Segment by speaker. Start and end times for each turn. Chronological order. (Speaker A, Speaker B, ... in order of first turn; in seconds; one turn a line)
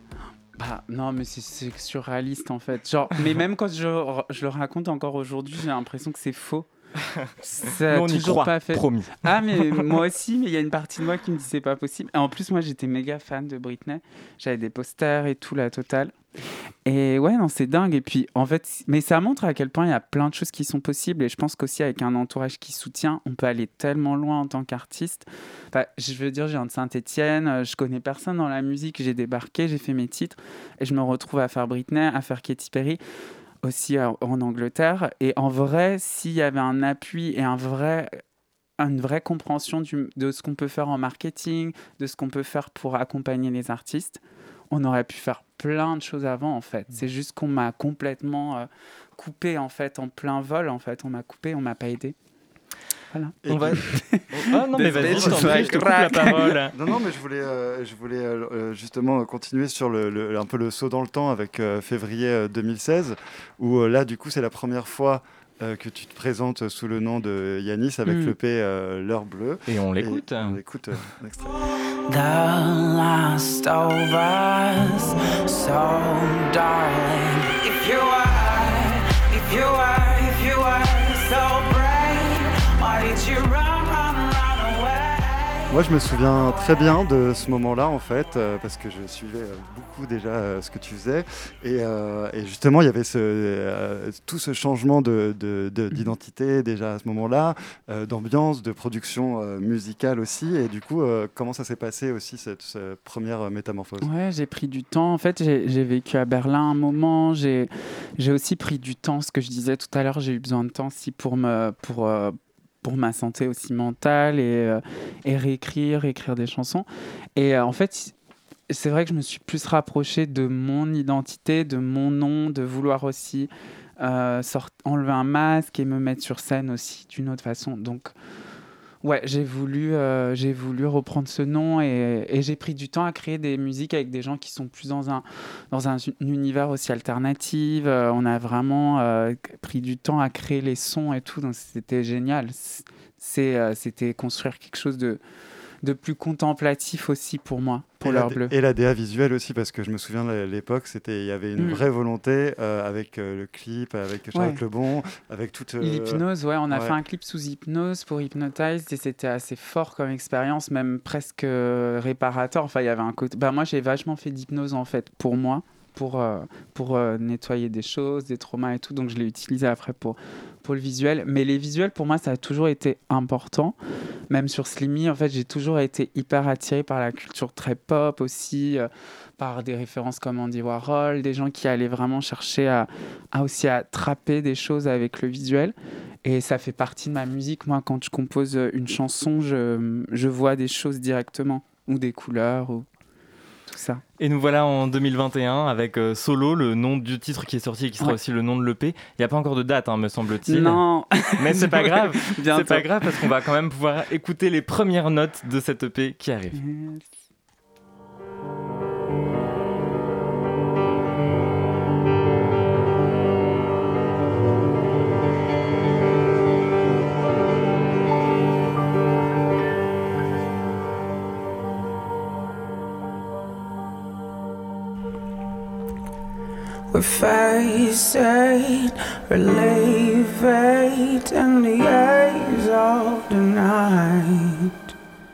Speaker A: 0.6-6.7
Speaker A: 7.4-16.2
Speaker B: 7.9-9.9
Speaker A: 16.9-33.0
Speaker A: 33.6-38.2
Speaker A: 38.8-52.2
Speaker A: 53.1-56.6
Speaker C: 53.4-53.8
Speaker B: 53.5-56.7
Speaker C: 54.8-56.0
Speaker C: 56.7-71.6
Speaker A: 68.1-68.3
Speaker B: 69.7-70.6
Speaker D: 72.1-85.5
Speaker C: 85.7-104.1
Speaker A: 104.0-118.2
Speaker A: 118.7-128.1
Speaker A: 129.0-145.2
Speaker A: 145.8-148.5
Speaker C: 148.0-157.0
Speaker A: 154.3-154.6
Speaker A: 155.8-173.8
Speaker A: 174.3-192.9
Speaker A: 193.7-194.0
Speaker B: 194.2-200.8
Speaker A: 200.5-203.3
Speaker B: 201.3-206.6
Speaker A: 206.5-207.1
Speaker D: 226.9-234.6